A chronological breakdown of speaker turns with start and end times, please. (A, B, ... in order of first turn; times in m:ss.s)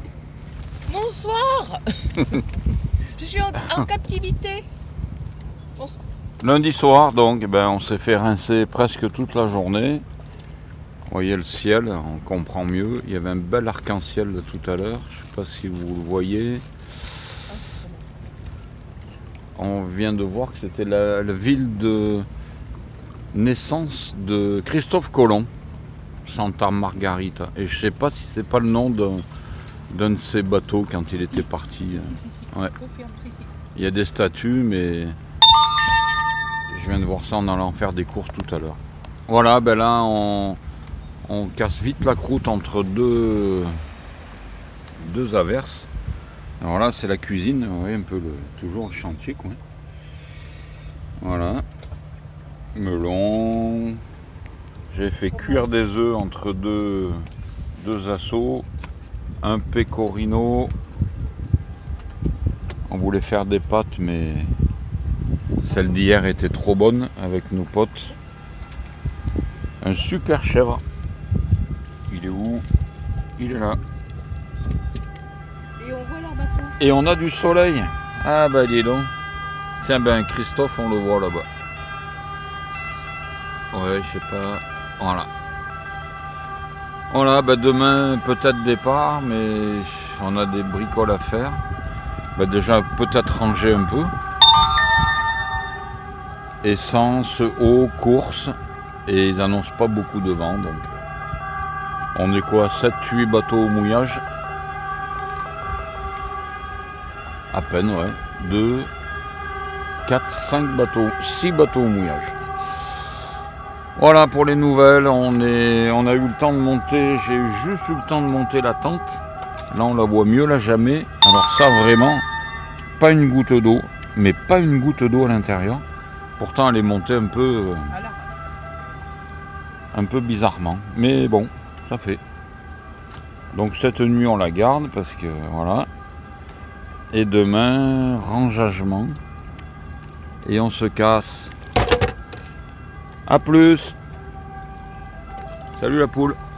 0:00.9-0:02.4 A
0:03.2-0:04.7 A
0:06.4-0:10.0 B
0:11.1-0:16.6 B
0:17.5-0:18.0 A
0:19.6-0:22.3 B
0:23.3-0:25.5 B
0:26.2-0:29.2 B
0:29.9-0:32.7 B
0:32.8-0:33.5 A
0:33.7-0:35.2 B
0:36.7-0:40.6 B
0:41.2-0:43.8 B
0:45.0-0:45.9 B
0:46.6-0:49.6 B
0:51.2-0:51.6 B
0:52.8-0:54.0 B
0:54.9-0:57.2 B
0:57.8-0:58.7 B
0:59.4-1:00.7 B
1:02.9-1:04.5 B
1:05.6-1:08.1 B
1:09.8-1:10.8 B
1:12.1-1:12.7 B
1:13.4-1:13.8 B
1:15.8-1:16.8 A
1:16.8-1:19.1 B
1:19.8-1:21.5 B
1:23.7-1:25.3 B
1:27.1-1:31.6 B
1:32.3-1:34.1 B
1:36.6-1:38.5 B
1:39.1-1:40.9 B
1:42.1-1:44.2 B
1:47.5-1:48.9 B
1:50.0-1:52.4 B
1:54.0-2:02.2 B
2:03.0-2:05.8 B
2:06.4-2:08.0 B
2:07.9-2:08.3 A
2:09.9-2:12.2 B
2:13.5-2:15.9 B
2:17.1-2:19.2 B
2:20.4-2:21.6 B
2:23.3-2:24.0 B
2:25.8-2:26.4 B